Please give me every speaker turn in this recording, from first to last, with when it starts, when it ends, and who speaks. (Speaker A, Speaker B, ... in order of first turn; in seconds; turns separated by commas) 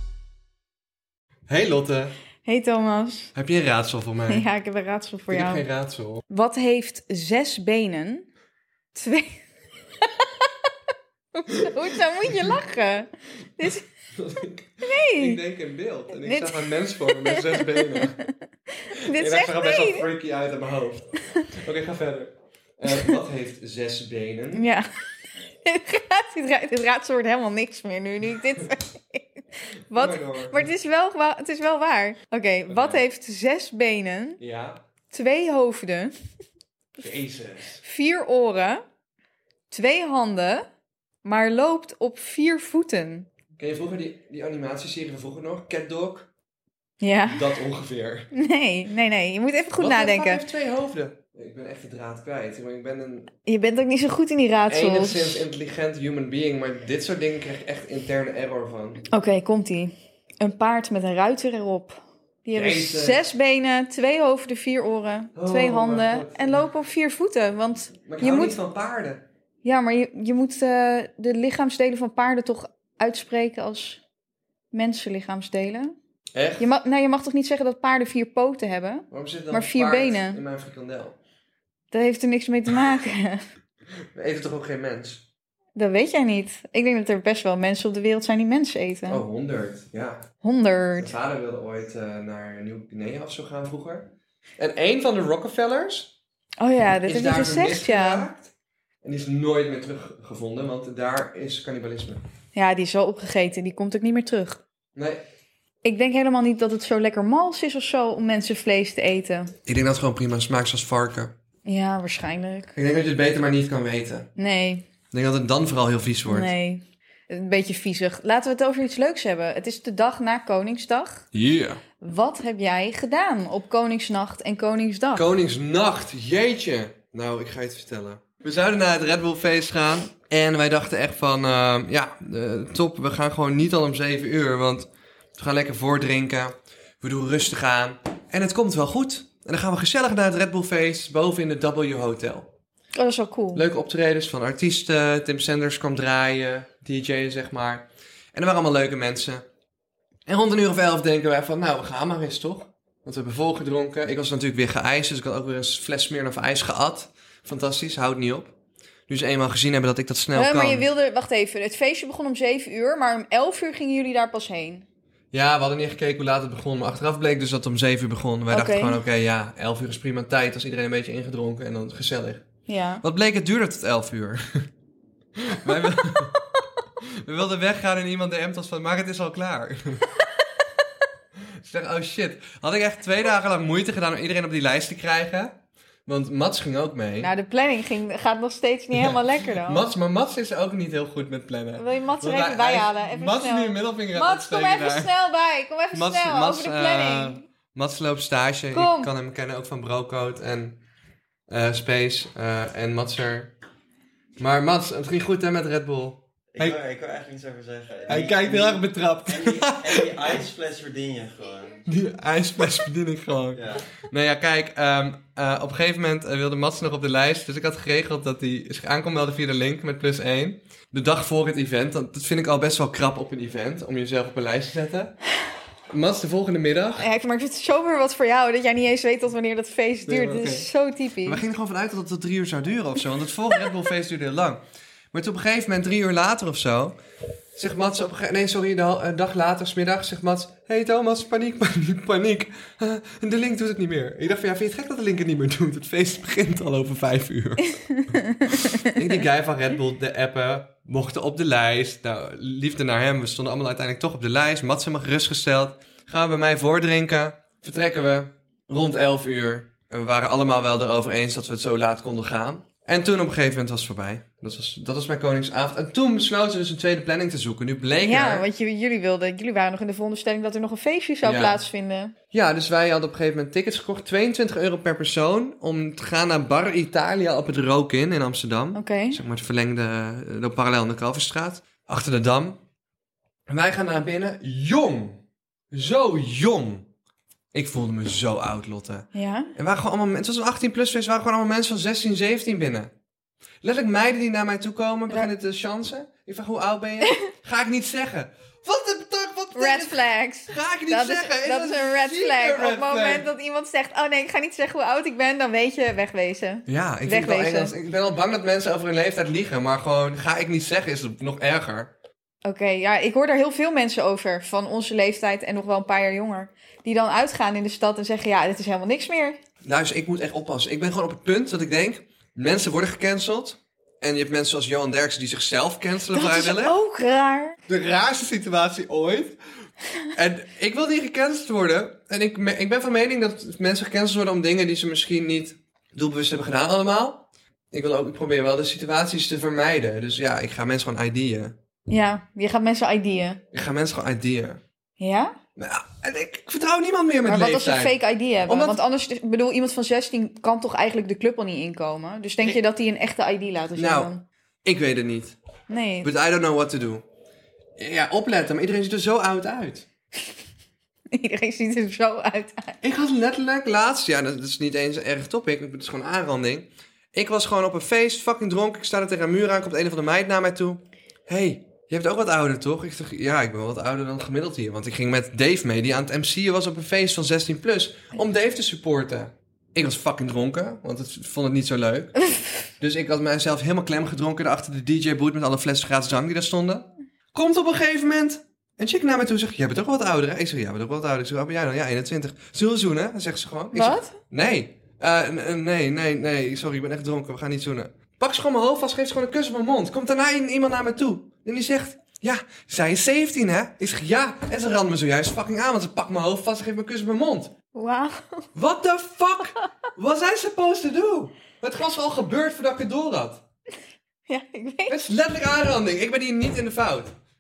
Speaker A: 1.5-2.1, Speaker B: 2.5-3.3, Speaker A: 3.4-4.5, Speaker B: 4.3-5.6, Speaker A: 5.3-6.2, Speaker B: 6.3-8.3, Speaker B: 8.9-9.4, Speaker B: 10.1-10.5, Speaker B: 11.3-13.9, Speaker A: 12.3-12.5, Speaker A: 14.2-18.2, Speaker B: 14.8-15.4, Speaker B: 16.1-20.1, Speaker A: 19.1-24.7, Speaker B: 24.5-24.9, Speaker B: 25.6-34.4, Speaker A: 29.9-30.7, Speaker A: 32.7-33.0, Speaker A: 34.4-34.8, Speaker B: 35.1-36.1, Speaker A: 37.0-37.8, Speaker B: 37.8-38.8, Speaker B: 39.7-40.7, Speaker B: 41.2-43.3, Speaker A: 43.6-46.3, Speaker B: 47.0-47.5, Speaker A: 47.2-48.3, Speaker B: 48.3-50.4, Speaker A: 49.8-53.3, Speaker B: 53.5-55.5, Speaker A: 54.7-59.0, Speaker B: 59.1-68.6, Speaker A: 62.5-63.2, Speaker A: 65.3-66.6, Speaker A: 68.1-69.2, Speaker B: 69.6-74.0, Speaker B: 74.7-76.0, Speaker A: 76.3-76.7, Speaker B: 76.6-80.4, Speaker A: 79.1-81.2, Speaker B: 81.9-83.4, Speaker A: 84.2-85.2, Speaker B: 85.8-89.2, Speaker A: 89.1-90.2, Speaker B: 90.4-91.1, Speaker A: 91.0-96.1, Speaker B: 96.6-98.3, Speaker A: 97.0-98.5, Speaker A: 99.0-102.2, Speaker B: 102.5-104.6, Speaker A: 105.0-105.2, Speaker B: 105.8-109.5, Speaker A: 109.7-111.3, Speaker B: 111.7-112.7, Speaker A: 112.8-114.3, Speaker B: 114.4-114.8, Speaker A: 115.1-116.5, Speaker B: 116.3-121.2, Speaker A: 121.3-121.8, Speaker B: 122.0-125.2, Speaker A: 125.2-142.5, Speaker B: 142.9-143.6, Speaker A: 143.6-149.4, Speaker A: 150.3-158.6, Speaker A: 159.1-160.9, Speaker B: 160.3-164.8, Speaker A: 165.3-172.5, Speaker B: 168.5-169.0, Speaker B: 172.7-173.0, Speaker A: 173.0-174.7, Speaker A: 175.4-176.4, Speaker A: 177.0-180.1, Speaker A: 181.5-187.3, Speaker B: 187.2-189.8, Speaker A: 188.9-195.1, Speaker B: 191.8-197.4, Speaker A: 195.9-200.8, Speaker B: 198.7-199.1, Speaker A: 201.5-203.5, Speaker A: 204.4-206.8, Speaker C: 206.6-211.8, Speaker A: 208.1-210.3, Speaker A: 211.9-225.2, Speaker C: 213.6-213.8, Speaker A: 225.9-227.1, Speaker B: 227.0-231.4, Speaker A: 230.1-230.7, Speaker A: 231.3-234.6, Speaker A: 235.1-237.0, Speaker A: 237.6-248.1, Speaker B: 248.3-248.9, Speaker A: 248.7-268.5, Speaker B: 268.0-272.1, Speaker A: 271.2-271.6, Speaker A: 272.3-282.6, Speaker B: 278.8-279.2, Speaker A: 283.5-286.9, Speaker A: 287.5-292.9, Speaker B: 289.1-289.5, Speaker A: 293.6-303.3, Speaker B: 299.6-307.7, Speaker A: 306.7-311.9, Speaker B: 312.4-319.4, Speaker A: 319.6-326.8, Speaker B: 326.1-327.6, Speaker A: 327.7-329.4, Speaker A: 330.1-341.6, Speaker B: 341.9-343.4, Speaker A: 343.5-344.6, Speaker B: 345.0-345.4, Speaker A: 345.6-348.8, Speaker B: 347.3-354.2, Speaker A: 353.8-354.1, Speaker A: 354.6-355.4, Speaker B: 355.7-356.1, Speaker A: 356.0-357.0, Speaker A: 357.8-359.9, Speaker B: 361.1-362.8, Speaker A: 362.8-382.1, Speaker A: 382.8-407.5, Speaker B: 393.7-394.2, Speaker B: 407.7-408.4, Speaker A: 408.6-413.4, Speaker B: 414.3-415.0, Speaker A: 414.9-417.1